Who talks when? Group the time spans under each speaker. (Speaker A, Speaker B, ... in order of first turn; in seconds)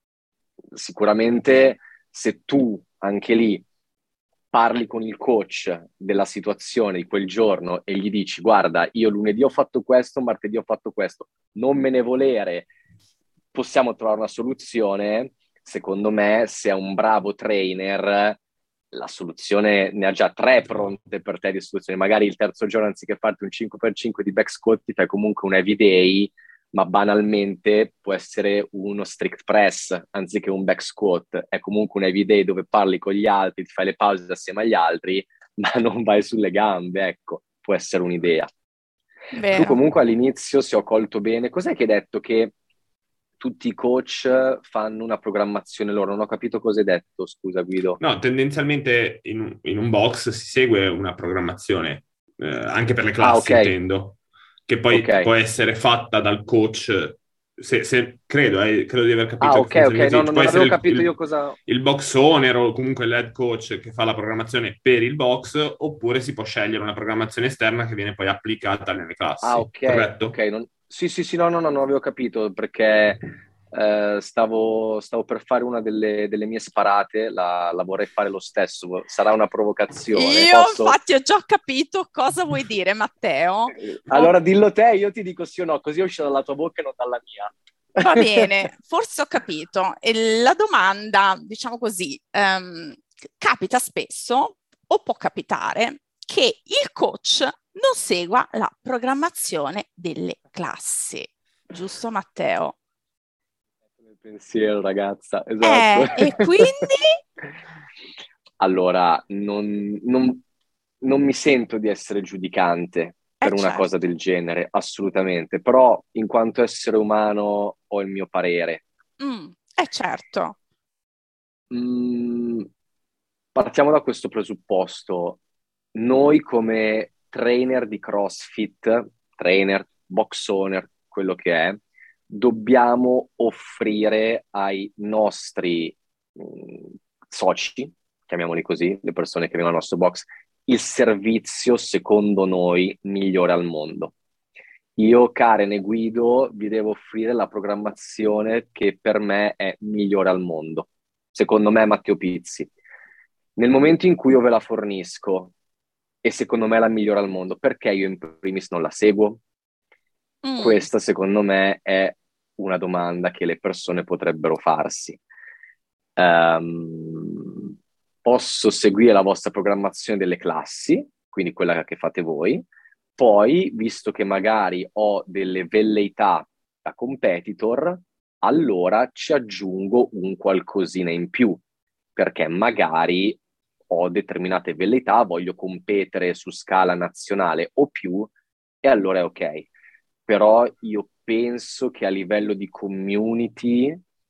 Speaker A: 0.7-3.6, 4.5-12.7, 13.5-18.4, 18.9-38.5, 39.5-42.5, 43.4-48.0, 53.2-53.7, 54.9-55.3, 59.4-61.6, 69.4-73.2, 73.7-81.0, 83.8-88.5, 104.0-106.9, 108.6-110.4, 111.0-118.8, 121.7-122.7, 123.5-125.4, 126.0-144.1, 145.0-152.7, 153.6-155.5, 156.2-159.4, 160.6-165.2, 166.2-167.7, 168.2-172.6, 173.2-181.6, 182.2-188.3, 188.8-189.7, 190.3-194.0
Speaker B: 39.3-39.8, 80.1-84.3, 88.0-102.8, 105.6-107.2, 113.4-113.9, 119.2-120.6, 160.4-160.8
Speaker C: 48.0-61.1, 61.7-70.4